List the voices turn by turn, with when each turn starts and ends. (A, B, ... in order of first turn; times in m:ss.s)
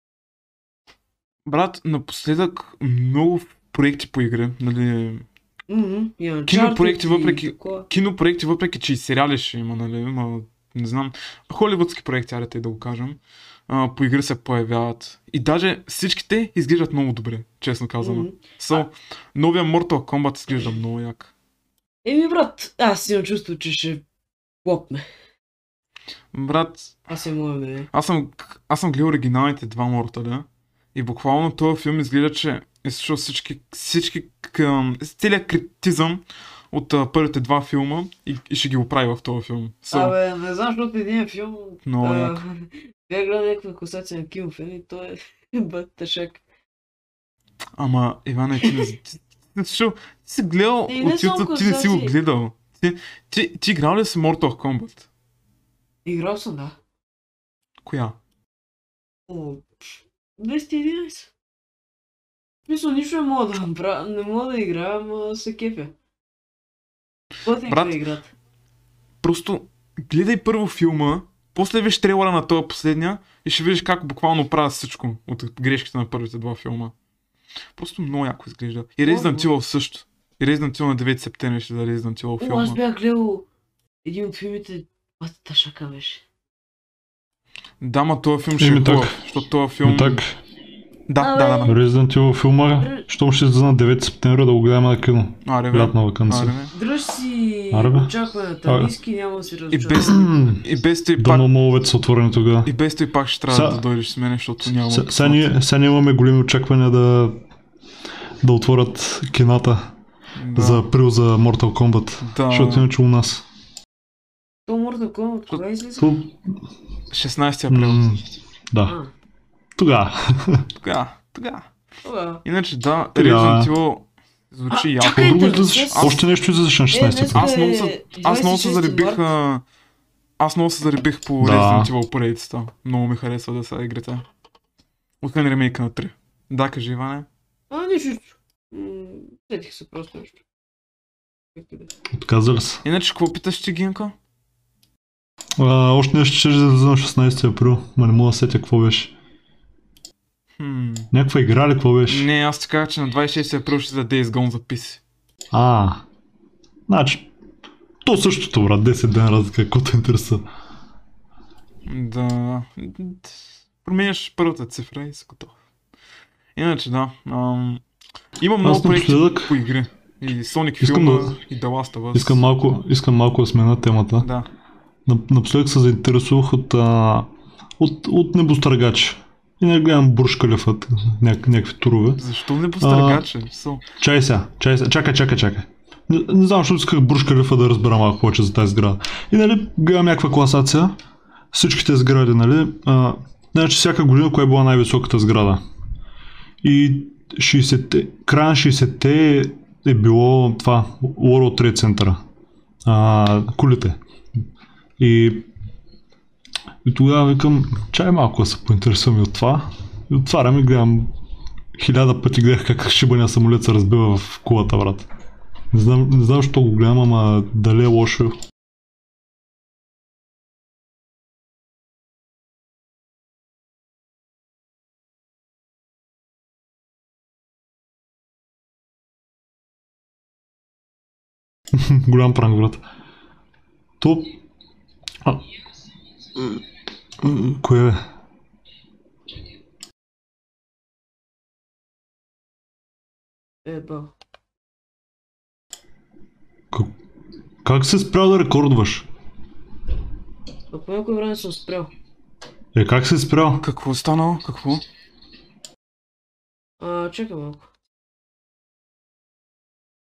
0:01.5-0:05.3 A
0:05.7-0:07.9 B
0:06.5-0:21.3 A
0:18.0-0:18.4 B
0:22.0-0:24.0 B
0:24.6-0:25.0 B
0:26.3-0:27.0 A
0:27.1-0:27.9 B
0:27.9-0:40.2 A
0:39.9-0:46.4 B
0:41.9-0:42.4 A
0:47.8-0:55.1 A
0:48.6-0:48.9 B
0:50.9-0:52.1 B
0:56.0-0:56.8 B
0:57.8-0:58.2 A
0:59.3-1:01.3 B
1:02.7-1:05.9 B
1:07.4-1:08.3 B
1:07.7-1:08.0 A
1:09.2-1:16.9 A
1:17.8-1:22.8 A
1:19.0-1:19.5 B
1:22.4-1:23.5 B
1:24.0-1:26.2 B
1:27.8-1:30.2 A
1:28.6-1:29.2 C
1:29.8-1:30.3 C
1:31.1-1:31.8 A
1:31.2-1:31.8 B
1:31.6-1:36.6 C
1:32.8-1:33.1 B
1:35.4-1:36.7 A
1:36.7-1:40.3 B
1:37.7-1:38.1 C
1:38.7-1:38.9 C
1:39.7-1:41.5 A
1:40.0-1:40.6 C
1:41.2-1:42.7 C
1:42.7-1:45.5 A
1:43.5-1:43.8 C
1:44.9-1:47.4 C
1:48.4-1:49.9 C
1:50.4-1:50.9 A
1:50.6-1:53.4 C
1:52.2-1:52.9 A
1:54.7-1:56.1 B
1:56.0-1:56.4 C
1:57.1-1:58.2 A
1:57.7-1:58.9 C
1:59.8-2:00.7 C
2:00.8-2:01.7 A
2:02.0-2:02.4 B
2:02.4-2:06.2 A
2:03.2-2:03.7 C
2:04.7-2:06.2 B
2:05.1-2:07.5 C
2:06.9-2:09.3 B
2:07.3-2:09.6 A
2:10.4-2:14.2 A
2:11.4-2:11.9 C
2:15.2-2:17.3 A
2:17.7-2:20.4 B
2:21.6-2:21.9 B
2:22.1-2:22.8 C
2:22.8-2:24.1 A
2:25.6-2:29.1 C
2:30.6-2:31.1 A
2:31.1-2:32.3 C
2:32.1-2:35.0 A
2:35.5-2:36.0 C
2:36.9-2:37.3 C
2:38.0-2:40.4 C
2:41.9-2:45.5 A
2:46.6-2:47.8 A
2:48.4-2:52.4 A
2:48.6-2:49.6 C
2:50.8-2:51.4 C
2:52.1-2:54.3 C
2:54.2-2:54.5 A
2:55.1-2:57.3 C
2:57.8-3:02.2 C
3:02.2-3:03.8 A
3:02.8-3:03.3 C
3:04.0-3:11.0 C
3:11.5-3:15.6 C
3:16.6-3:22.2 C
3:22.8-3:24.0 C
3:25.0-3:25.5 C
3:26.8-3:31.1 C
3:31.8-3:35.1 C
3:35.7-3:38.4 C
3:51.7-3:52.8 C
3:54.0-3:54.4 C
3:57.2-3:58.0 C
4:03.6-4:04.1 B
4:07.6-4:09.1 C
4:10.7-4:11.9 B
4:12.7-4:13.6 C
4:13.6-4:14.8 A
4:16.8-4:17.7 B